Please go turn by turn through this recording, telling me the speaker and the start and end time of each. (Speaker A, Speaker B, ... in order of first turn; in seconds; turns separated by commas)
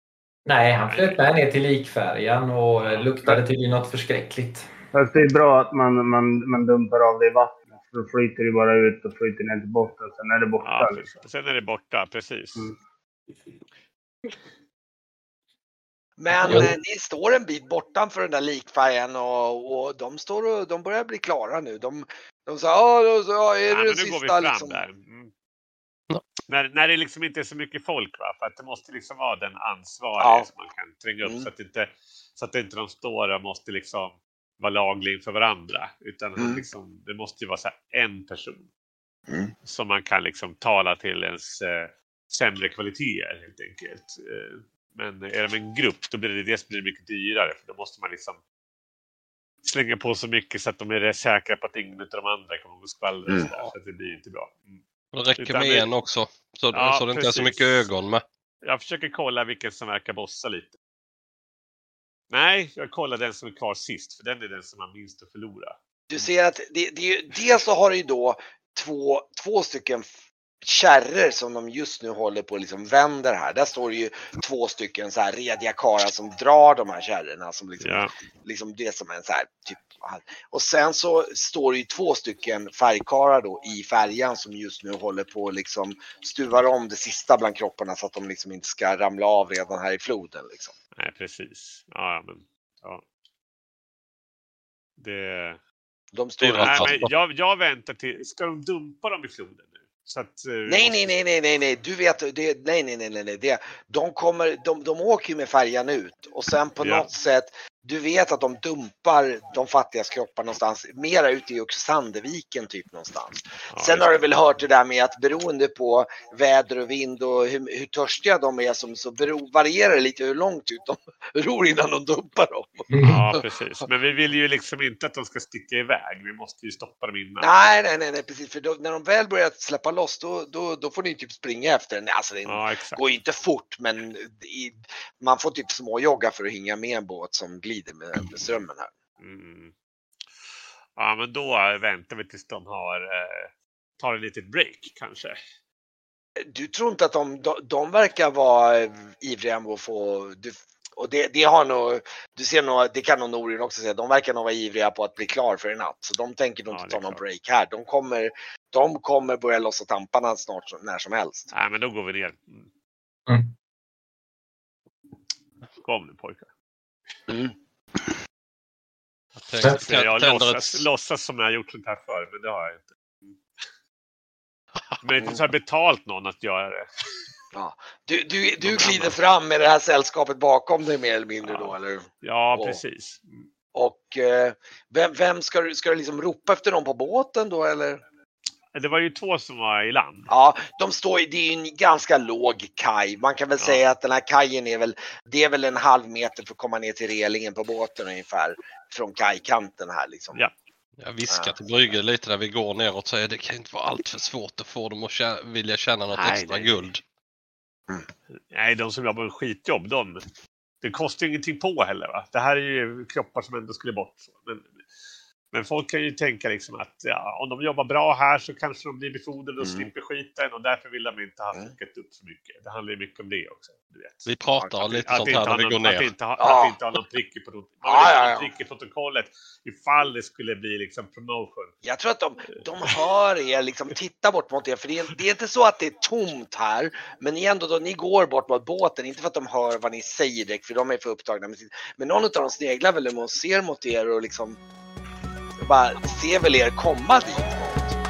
Speaker A: 0.5-4.7, Speaker B: 0.9-1.2, Speaker B: 2.8-3.1, Speaker C: 4.9-11.1, Speaker B: 10.6-12.7, Speaker D: 16.2-24.8, Speaker B: 23.7-25.3, Speaker B: 26.5-38.7, Speaker D: 30.2-30.5, Speaker D: 36.4-36.6, Speaker D: 39.3-39.5, Speaker B: 39.6-48.4, Speaker B: 49.6-54.8, Speaker E: 55.1-58.2, Speaker B: 55.4-55.9, Speaker B: 56.7-57.9, Speaker B: 58.6-60.8, Speaker B: 62.3-65.8, Speaker D: 66.1-70.1, Speaker D: 70.6-90.7, Speaker B: 77.8-78.1, Speaker B: 91.0-93.0, Speaker B: 95.0-95.6, Speaker D: 96.1-96.9, Speaker E: 96.4-97.1, Speaker B: 96.6-101.1, Speaker D: 100.7-123.4, Speaker B: 106.8-107.1, Speaker B: 113.7-114.3, Speaker A: 122.9-123.2, Speaker B: 123.0-127.7, Speaker D: 127.4-138.9, Speaker B: 132.4-133.0, Speaker B: 139.2-139.7, Speaker B: 140.3-145.4, Speaker D: 146.4-161.5, Speaker B: 156.7-157.2, Speaker B: 161.5-162.7, Speaker A: 163.3-163.5, Speaker B: 165.8-166.5, Speaker D: 167.3-167.5, Speaker E: 169.4-170.8, Speaker B: 169.8-173.4, Speaker B: 175.0-177.2, Speaker D: 177.5-182.8, Speaker B: 178.6-179.2, Speaker B: 181.4-183.4, Speaker D: 183.7-188.0, Speaker B: 188.7-190.3, Speaker D: 190.3-200.4, Speaker E: 201.0-207.0, Speaker D: 201.3-201.6, Speaker B: 206.1-206.9, Speaker B: 208.3-210.2, Speaker B: 210.8-214.8, Speaker B: 215.5-231.7, Speaker D: 219.6-219.9, Speaker E: 224.3-226.1, Speaker D: 226.4-226.8, Speaker D: 227.8-228.5, Speaker D: 231.8-244.6, Speaker D: 245.6-248.0